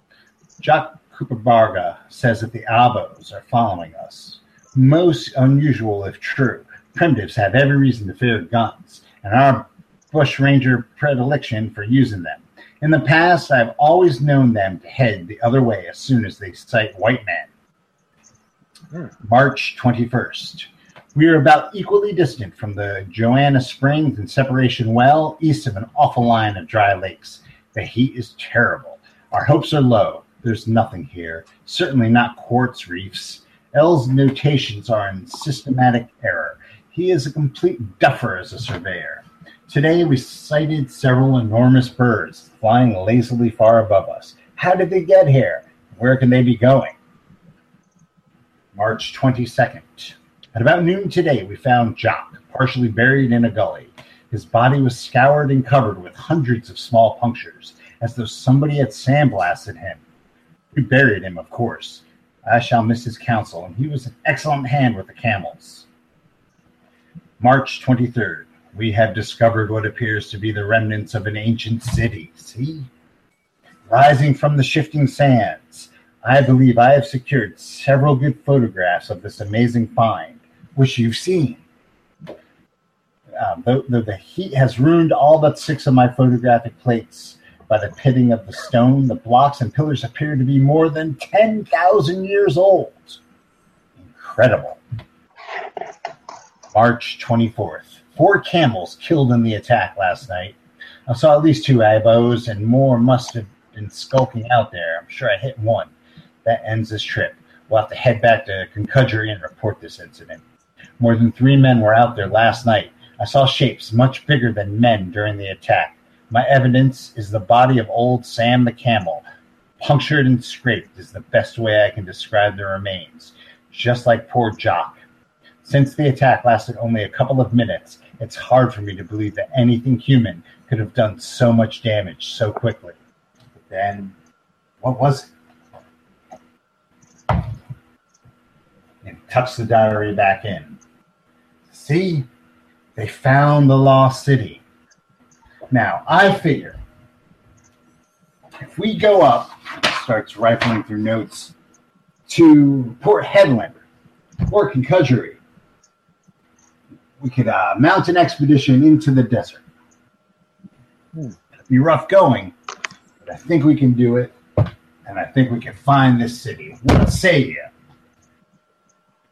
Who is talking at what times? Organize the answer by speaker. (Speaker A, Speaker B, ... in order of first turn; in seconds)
Speaker A: 0.6-17.5, 19.2-47.0, 48.7-60.0, 60.7-65.8, 67.4-72.9, 73.9-81.6, 83.3-93.2, 94.0-94.8, 96.7-105.9, 106.4-110.4, 111.0-119.2, 119.8-125.0, 125.6-132.9, 133.6-134.1, 134.8-135.3, 139.0-140.8, 141.7-142.3, 142.9-144.6, 145.7-146.8, 148.6-151.5, 152.3-153.8, 154.5-155.4, 157.2-159.6, 161.7-162.5, 163.2-167.7